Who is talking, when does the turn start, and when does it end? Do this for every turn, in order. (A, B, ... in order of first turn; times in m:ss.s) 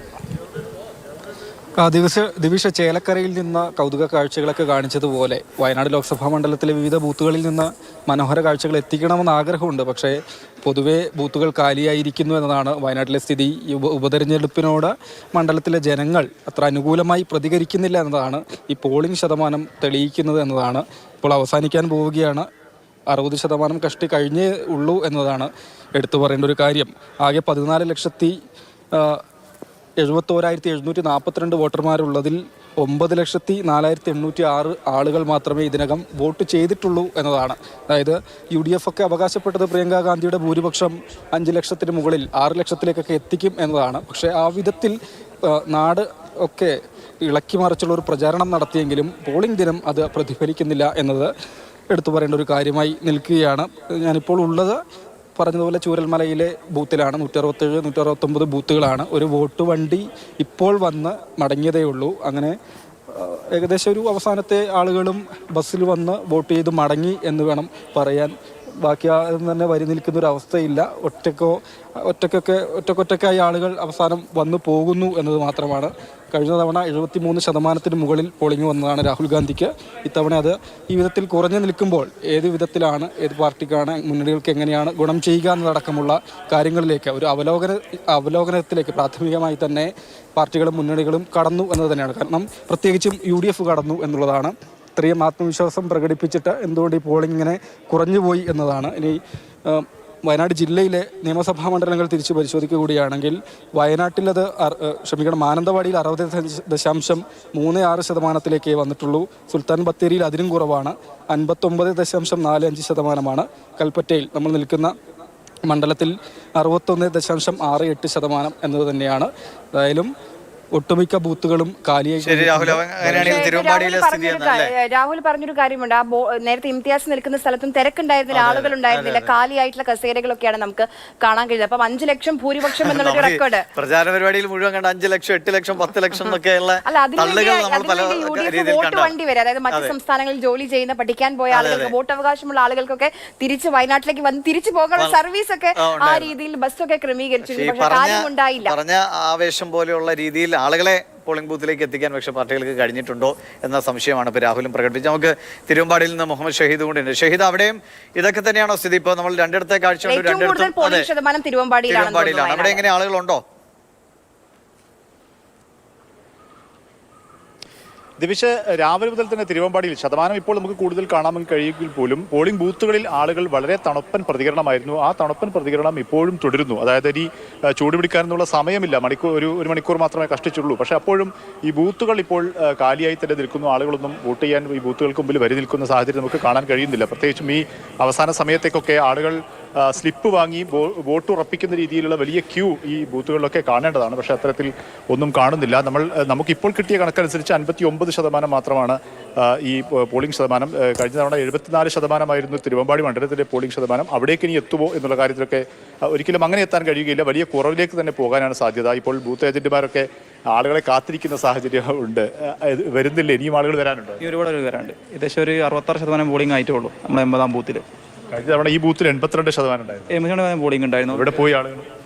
0:01.8-0:22.5 A
0:23.1-0:28.3 A
0:28.9-0:29.2 A
0:30.0-0:51.3 A
0:51.9-0:54.8 A
0:55.4-1:02.6 A
1:03.1-1:54.9 A
1:55.7-2:00.1 A
2:00.7-2:03.5 A
2:02.2-2:04.7 B
2:03.1-2:13.7 C
2:08.3-2:09.3 B
2:12.8-2:19.1 B
2:16.8-2:28.8 C
2:21.5-2:21.9 B
2:25.8-2:26.3 B
2:27.4-2:41.1 B
2:40.0-2:42.8 C
2:41.9-2:43.4 B
2:48.2-3:34.2 D
3:34.2-3:37.8 E
3:38.3-3:40.1 D
3:40.1-3:41.4 E
3:41.1-3:41.8 D